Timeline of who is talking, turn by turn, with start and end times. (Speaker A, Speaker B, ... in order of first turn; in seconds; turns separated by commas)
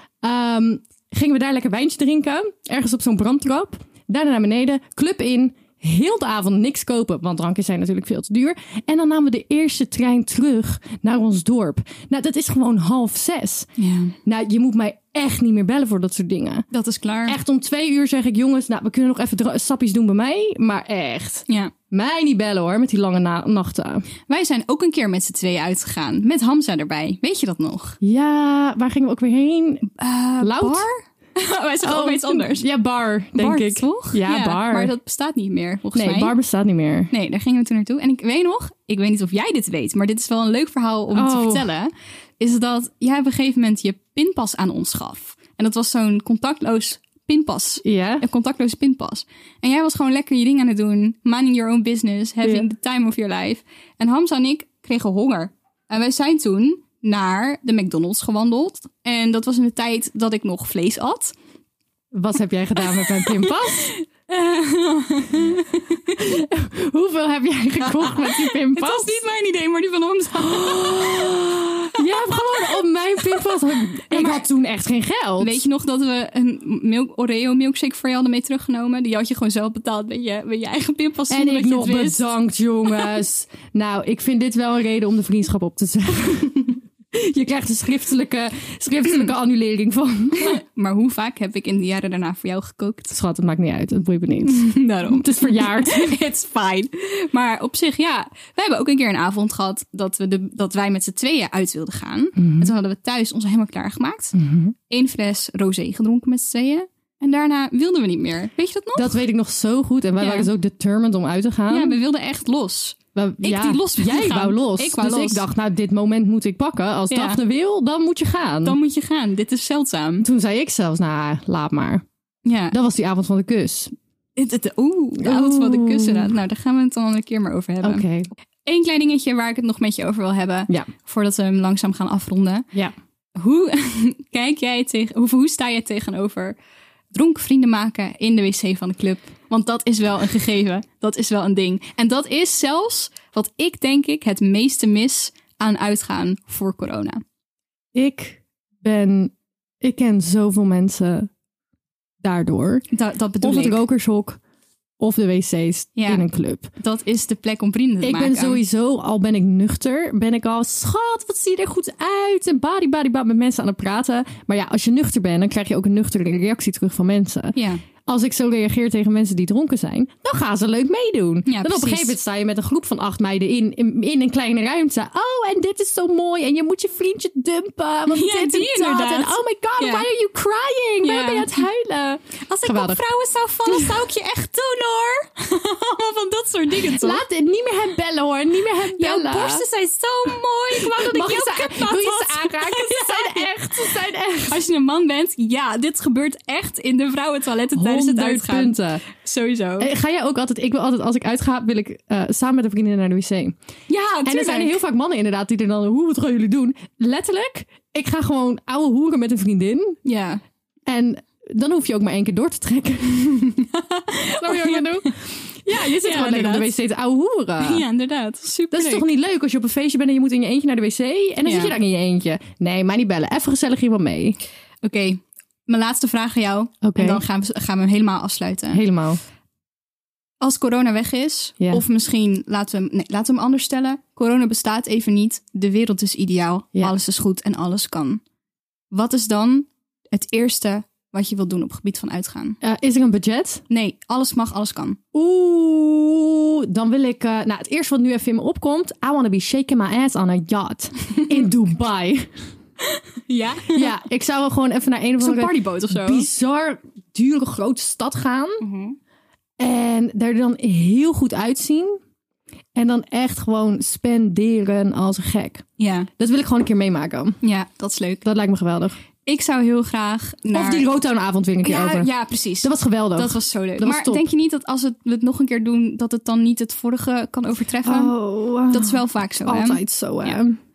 Speaker A: 0.2-13.7, Speaker B: 13.8-14.2, Speaker A: 14.2-16.6, Speaker B: 16.7-17.4, Speaker A: 17.2-24.1, Speaker B: 24.3-28.0, Speaker A: 28.0-30.9, Speaker B: 29.9-32.7, Speaker A: 31.8-34.9, Speaker B: 33.3-36.3, Speaker A: 35.9-37.1, Speaker B: 37.1-61.3, Speaker A: 41.1-41.7, Speaker A: 47.8-48.2, Speaker A: 52.4-52.7, Speaker A: 62.1-63.9, Speaker B: 62.8-66.3, Speaker A: 66.2-69.2, Speaker B: 67.8-74.4, Speaker A: 70.4-75.6, Speaker B: 75.4-82.3, Speaker A: 81.3-90.6, Speaker B: 90.4-93.2, Speaker A: 93.1-96.2, Speaker B: 94.4-104.3, Speaker A: 102.4-102.7, Speaker A: 104.3-104.7, Speaker B: 104.9-109.2, Speaker A: 108.9-112.0, Speaker B: 110.2-110.5, Speaker B: 111.7-115.4, Speaker A: 113.1-118.8, Speaker B: 117.1-117.4, Speaker B: 118.6-120.3, Speaker A: 120.2-122.0, Speaker B: 122.4-122.8, Speaker A: 122.7-123.9, Speaker B: 124.3-128.1, Speaker A: 125.2-126.3, Speaker A: 127.8-128.3, Speaker B: 128.6-132.7, Speaker B: 133.3-136.6, Speaker B: 137.1-147.2, Speaker A: 147.9-151.3, Speaker A: 152.2-152.8, Speaker B: 152.9-153.8, Speaker A: 153.4-154.4, Speaker A: 155.0-156.7, Speaker B: 155.9-158.6, Speaker A: 158.0-183.0, Speaker B: 167.5-167.8, Speaker B: 171.5-172.2, Speaker B: 178.1-180.1, Speaker B: 181.0-181.7, Speaker B: 182.4-187.2, Speaker A: 183.7-184.0, Speaker A: 186.8-189.6, Speaker B: 188.9-193.8, Speaker A: 190.7-194.6, Speaker B: 194.5-199.9, Speaker A: 197.7-199.0, Speaker A: 199.8-203.6, Speaker B: 203.9-204.8, Speaker A: 204.2-210.0, Speaker B: 210.0-210.4, Speaker A: 210.9-213.6, Speaker B: 213.5-215.2, Speaker A: 214.3-217.8, Speaker B: 215.7-216.7, Speaker B: 217.6-219.1, Speaker A: 218.7-224.4, Speaker B: 221.4-221.8, Speaker B: 224.8-228.8, Speaker A: 226.8-227.2, Speaker A: 228.7-229.2, Speaker B: 230.4-238.2, Speaker B: 238.9-242.6, Speaker A: 242.6-243.6, Speaker B: 243.7-245.0, Speaker A: 245.1-252.3, Speaker B: 251.2-251.4, Speaker B: 252.9-253.9, Speaker A: 253.7-258.6, Speaker B: 255.2-256.3, Speaker B: 258.6-259.0, Speaker A: 259.6-262.0, Speaker A: 262.7-265.6, Speaker B: 265.8-266.1, Speaker A: 266.2-267.4, Speaker B: 267.4-268.2, Speaker A: 268.2-269.0, Speaker B: 269.2-270.9, Speaker A: 270.5-274.3, Speaker B: 271.6-278.2, Speaker A: 277.8-280.6, Speaker B: 278.7-280.4